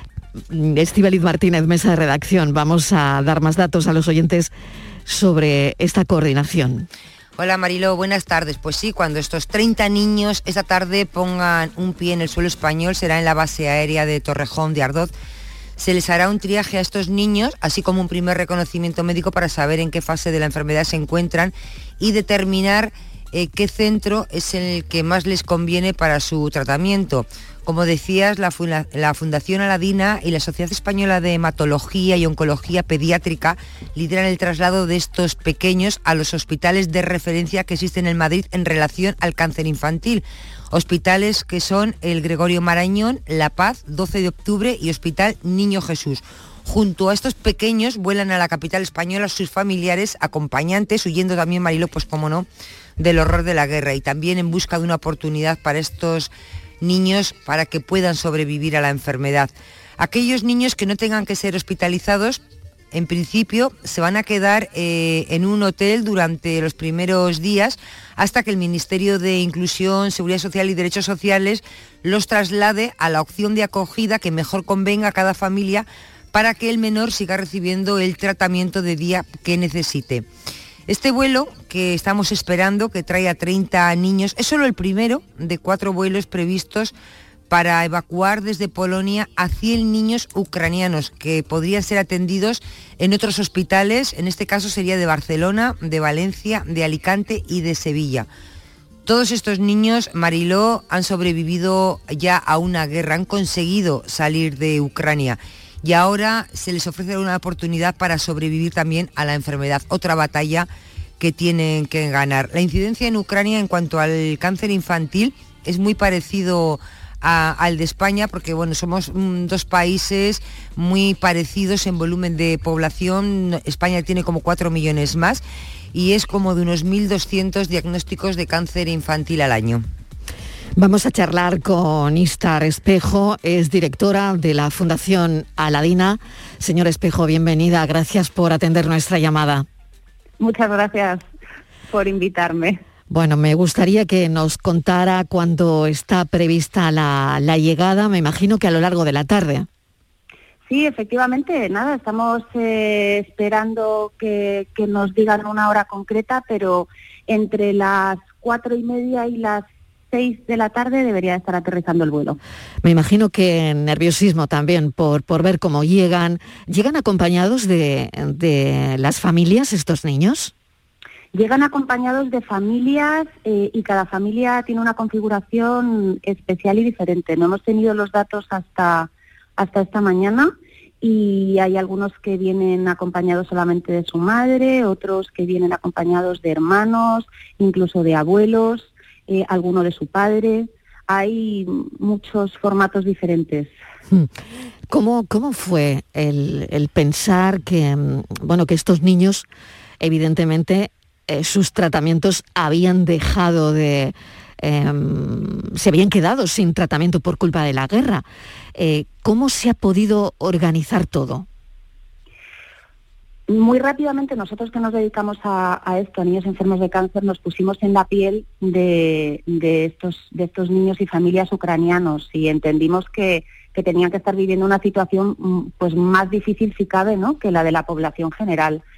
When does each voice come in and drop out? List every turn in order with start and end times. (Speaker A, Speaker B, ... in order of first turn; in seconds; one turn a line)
Speaker A: 0.5-4.5
Speaker A: 5.1-6.9
Speaker B: 7.4-15.1
Speaker B: 15.8-52.5
Speaker B: 53.0-56.3
Speaker B: 56.8-62.4
Speaker B: 62.9-80.3
Speaker B: 80.9-86.9
Speaker B: 87.5-98.3
Speaker B: 99.1-110.7
Speaker B: 111.2-125.4
Speaker B: 125.9-129.8
Speaker A: 130.8-139.7
Speaker C: 140.4-141.3
Speaker C: 141.9-142.8
Speaker A: 143.1-149.7
Speaker C: 150.7-162.4
Speaker A: 162.8-170.5
Speaker C: 171.3-193.7
Speaker A: 194.9-199.4
Speaker A: 200.0-208.2
Speaker A: 208.8-211.5
Speaker C: 213.5-228.8